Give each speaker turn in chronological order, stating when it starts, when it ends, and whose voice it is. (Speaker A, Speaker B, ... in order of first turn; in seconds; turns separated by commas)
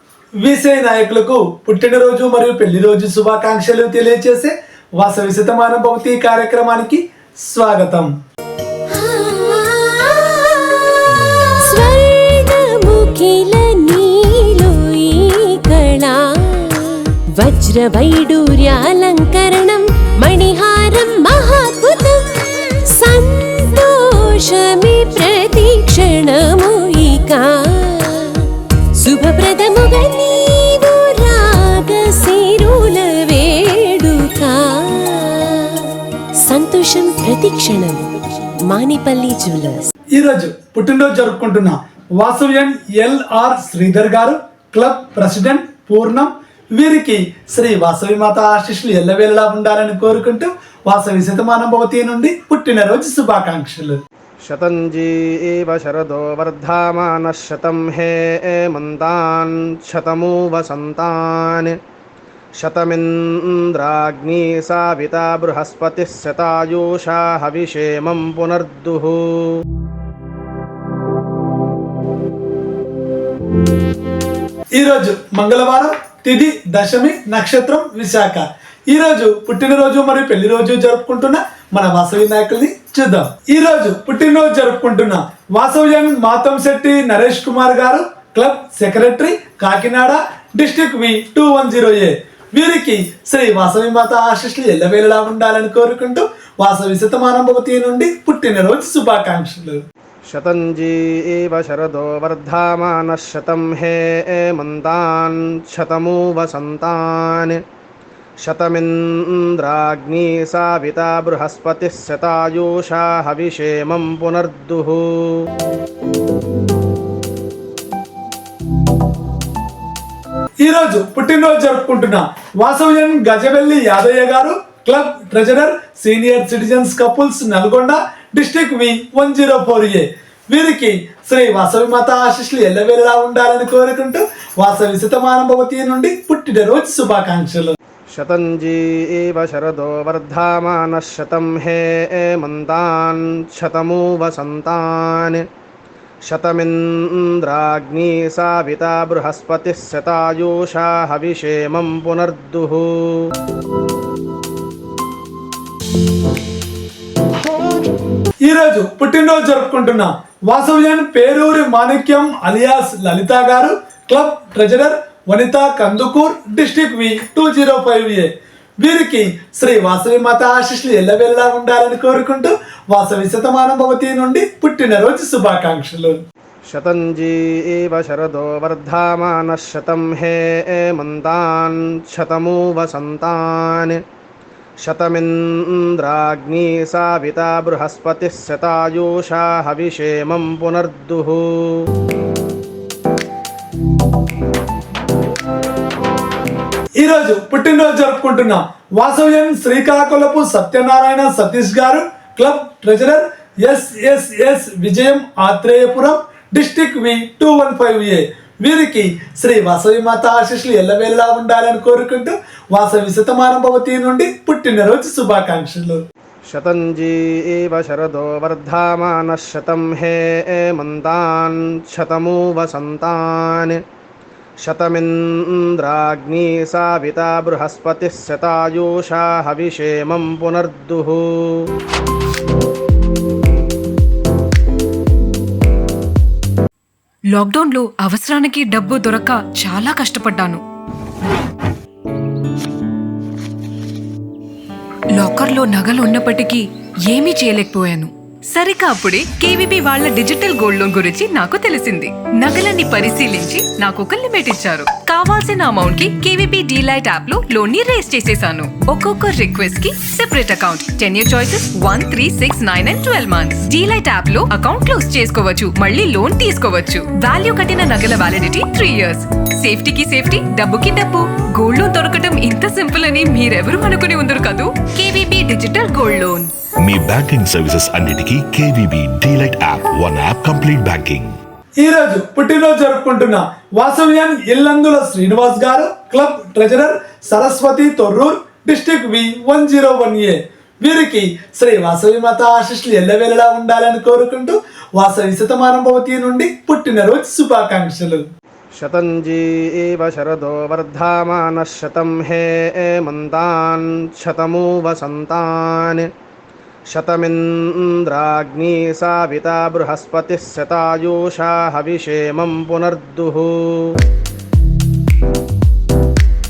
Speaker A: 0.4-8.1, Speaker B: 8.9-39.9, Speaker A: 40.1-54.0, Speaker C: 54.5-61.7, Speaker C: 62.6-69.5, Speaker A: 74.7-99.8, Speaker C: 100.3-107.6, Speaker C: 108.5-115.3, Speaker A: 120.6-137.8, Speaker C: 138.1-145.4, Speaker C: 146.3-153.1, Speaker A: 158.4-168.3, Speaker A: 168.8-176.2, Speaker C: 176.7-184.0, Speaker C: 184.8-191.7, Speaker A: 197.0-216.0, Speaker C: 216.5-223.8, Speaker C: 224.6-231.2, Speaker D: 237.3-240.6, Speaker D: 245.2-276.5, Speaker E: 276.8-281.4, Speaker A: 281.8-298.2, Speaker C: 298.8-306.1, Speaker C: 306.9-313.8